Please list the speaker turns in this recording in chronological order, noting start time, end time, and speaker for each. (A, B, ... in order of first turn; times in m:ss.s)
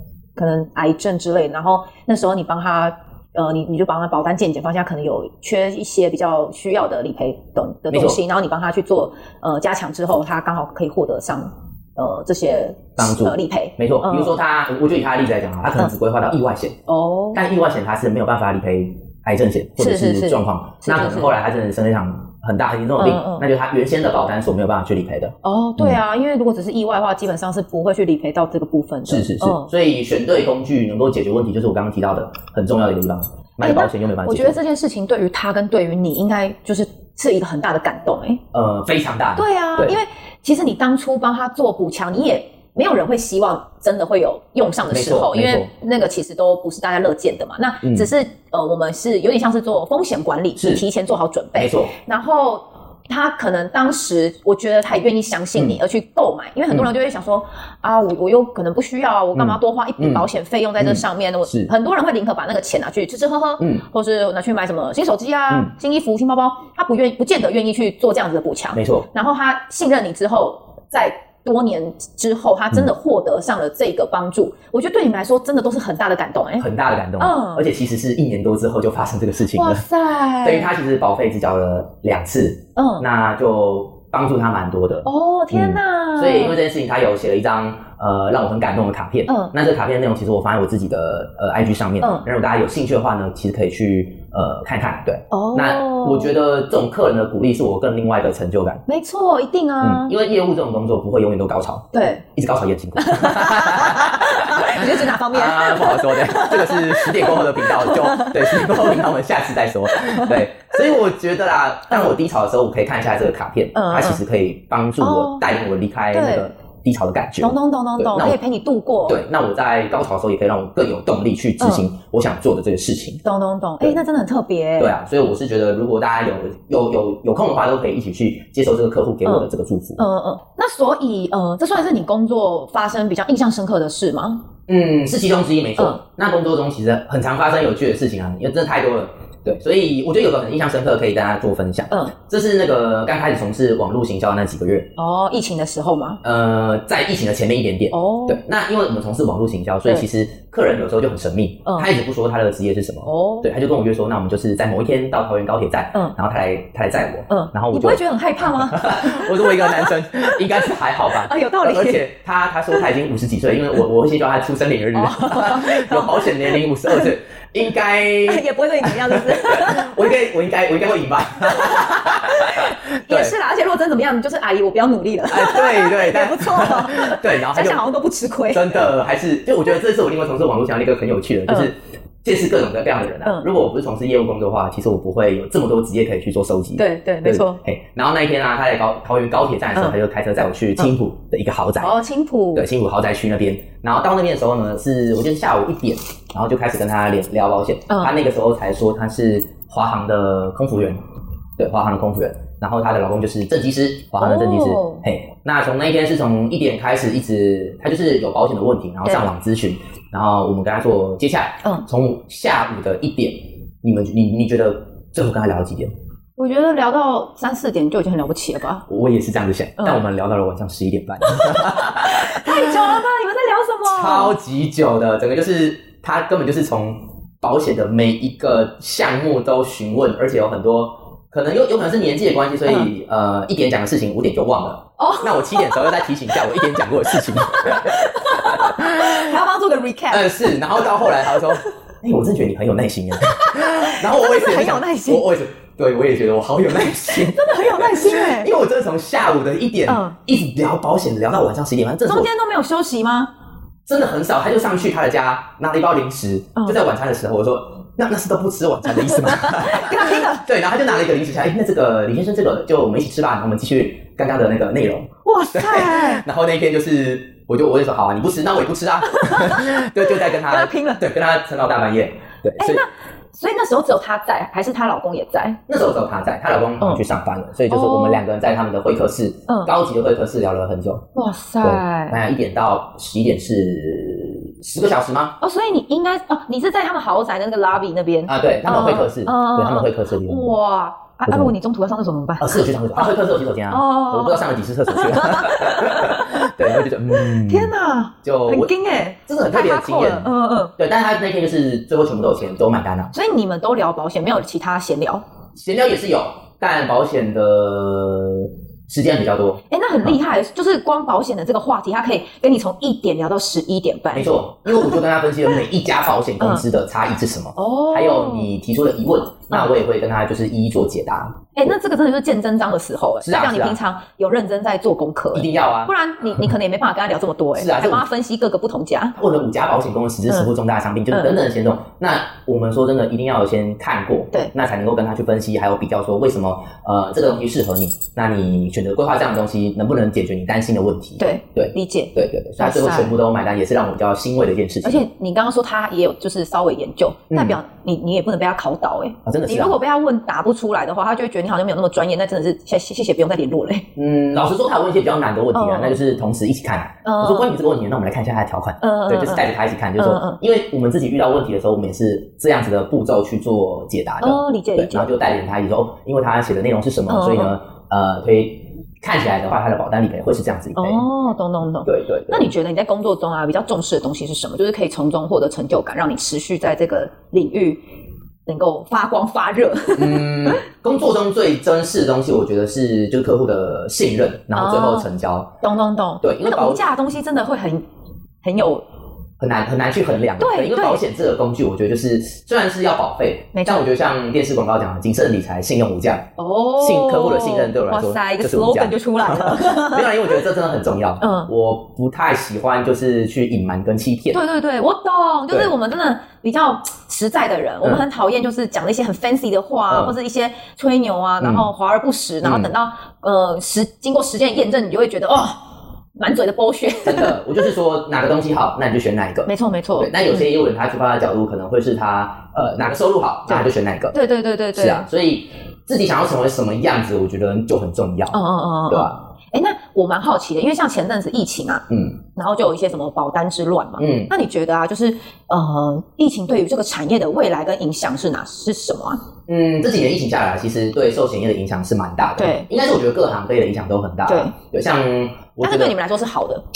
0:00.4-0:14.4 A
0:07.9-0:08.2 B
0:13.0-0:16.8 B
0:16.9-0:17.4 A
0:17.3-0:26.0 B
0:19.8-0:21.4 A
0:23.0-0:23.5 A
0:25.4-0:29.7 A
0:29.1-0:34.6 B
0:33.6-0:38.4 A
0:38.5-0:40.0 B
0:39.4-1:16.7 A
0:44.9-0:45.7 B
0:47.8-0:48.1 B
0:50.6-0:50.8 B
0:51.6-0:51.9 B
0:59.3-1:00.2 B
1:00.8-1:01.7 B
1:08.7-1:09.1 B
1:16.6-1:19.8 B
1:17.2-1:17.6 A
1:19.5-1:20.7 A
1:20.4-1:38.8 B
1:22.8-1:23.1 A
1:25.0-1:26.6 A
1:29.3-1:29.5 A
1:32.0-1:32.3 A
1:35.3-1:36.3 A
1:38.9-1:40.1 A
1:39.8-1:58.4 B
1:41.9-1:42.2 A
1:43.0-1:49.0 A
1:50.0-1:50.4 A
1:53.7-1:54.2 A
1:55.0-1:55.5 A
1:56.1-1:56.5 A
1:57.4-1:59.2 A
1:59.1-2:03.2 B
2:01.6-2:01.8 A
2:03.2-2:04.9 A
2:04.8-2:10.0 B
2:09.2-2:14.4 A
2:14.7-2:24.9 B
2:25.0-2:26.2 A
2:26.2-2:53.4 B
2:27.9-2:28.4 A
2:31.6-2:31.9 A
2:33.0-2:33.5 A
2:37.3-2:42.0 A
2:44.9-2:47.1 A
2:48.2-2:50.1 A
2:51.5-2:58.9 A
2:55.3-2:57.9 B
2:58.5-3:11.9 B
3:06.8-3:07.6 A
3:11.8-3:12.7 A
3:12.5-3:21.0 B
3:21.6-3:35.9 B
3:24.2-3:25.0 A
3:36.4-3:38.8 A
3:38.9-3:43.0 B
3:41.2-3:44.3 A
3:43.8-3:59.3 B
3:55.0-4:01.6 A
4:00.1-4:12.3 B
4:03.2-4:05.2 A
4:07.0-4:08.5 A
4:09.9-4:10.2 A
4:12.0-4:13.3 A
4:13.8-4:32.8 B
4:16.5-4:16.8 A
4:19.0-4:20.4 A
4:25.2-4:26.2 A
4:29.0-4:31.0 A
4:32.6-4:35.6 A
4:35.7-4:41.1 B
4:36.8-4:37.0 A
4:37.7-4:38.2 A
4:39.5-4:39.7 A
4:41.1-4:42.2 A
4:41.6-4:45.4 B
4:45.4-4:53.1 A
4:48.2-4:50.5 B
4:52.4-4:57.7 B
4:53.7-4:56.5 A
4:57.1-5:00.7 A
4:58.2-4:58.7 B
4:59.3-5:03.1 B
5:03.1-5:05.2 A
5:05.6-5:10.1 B
5:09.7-5:15.0 A
5:14.1-5:21.4 B
5:17.6-5:18.5 A
5:21.5-5:29.2 A
5:23.2-5:23.8 B
5:25.3-5:25.9 B
5:27.6-5:28.0 B
5:29.2-5:45.0 B
5:31.1-5:31.4 A
5:41.2-5:43.2 A
5:44.8-5:53.9 A
5:47.3-5:47.6 B
5:49.2-5:49.7 B
5:54.0-6:11.0 B
5:55.5-5:56.0 A
5:57.0-5:57.5 A
5:58.8-6:00.4 A
6:04.2-6:05.1 A
6:07.1-6:07.5 A
6:10.8-6:17.8 A
6:11.8-6:12.5 B
6:18.4-6:20.6 A
6:20.0-6:25.6 B
6:24.5-6:25.1 A
6:25.6-6:27.8 A
6:26.2-6:26.8 B
6:28.4-6:28.8 A
6:29.4-6:44.4 B
6:30.4-6:31.0 A
6:33.5-6:33.8 A
6:36.4-6:40.3 A
6:41.2-6:41.5 A
6:44.3-6:55.6 A
6:51.4-6:51.6 B
6:52.4-6:52.7 B
6:56.2-6:57.4 A
6:57.0-7:04.2 B
6:59.5-7:00.5 A
7:03.5-7:05.1 A
7:04.7-7:09.1 B
7:08.3-7:19.2 A
7:11.9-7:12.1 B
7:14.0-7:14.3 B
7:19.5-7:25.9 B
7:22.4-7:22.7 A
7:24.3-7:24.5 A
7:25.6-7:26.6 A